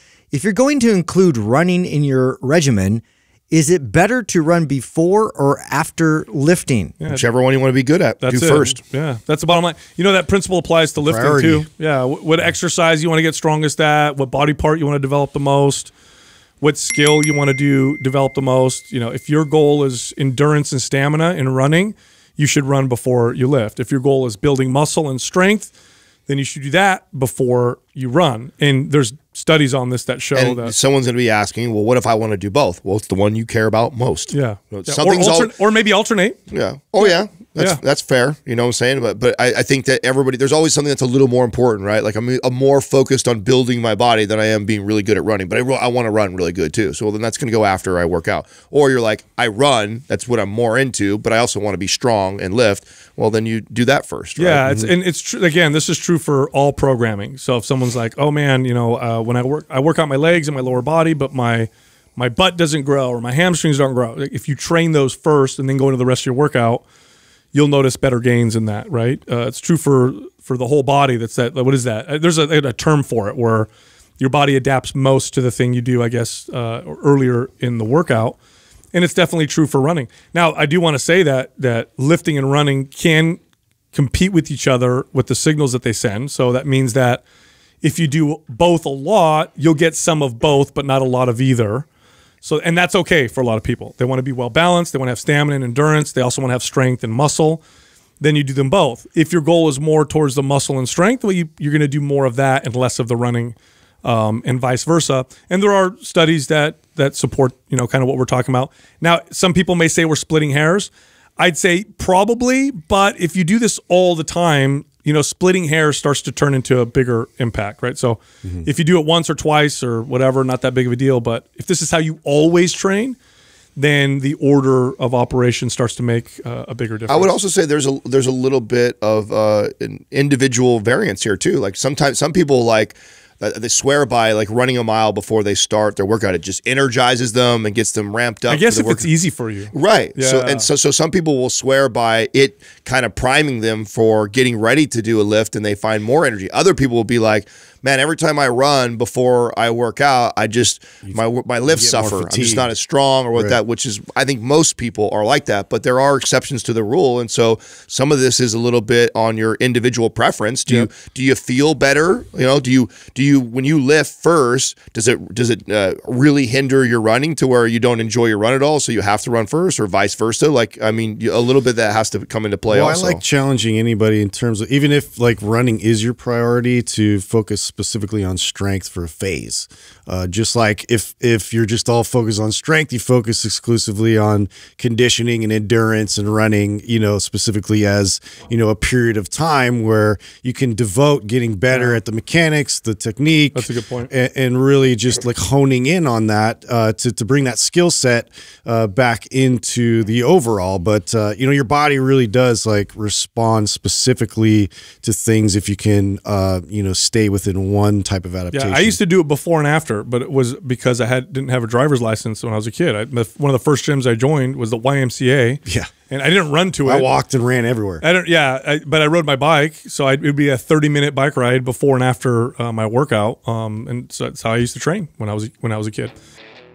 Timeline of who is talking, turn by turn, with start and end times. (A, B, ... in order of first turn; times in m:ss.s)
0:00.3-0:06.9 A
0:07.1-0:08.8 B
0:08.2-0:15.9 C
0:11.0-0:11.7 D
0:16.6-0:25.7 C
0:26.3-0:30.7 C
0:30.3-0:35.5 B
0:34.3-0:36.4 C
0:36.5-0:54.6 B
0:37.0-0:37.8 C
0:54.4-1:06.8 C
0:54.6-0:54.9 D
1:07.5-1:18.4 C
1:18.9-1:23.4 C
1:23.9-1:27.2 C
1:27.8-1:31.8 C
1:32.4-1:37.6 C
1:38.2-2:03.2 C
2:03.8-2:07.3 C
2:07.1-2:19.1 B
2:18.5-2:20.7 C
2:19.7-2:53.2 B
2:31.0-2:32.7 D
2:52.7-3:29.0 D
3:11.7-3:12.0 C
3:13.5-3:14.1 C
3:28.5-3:37.1 C
3:35.6-3:35.9 D
3:36.8-3:38.0 D
3:38.0-3:46.1 C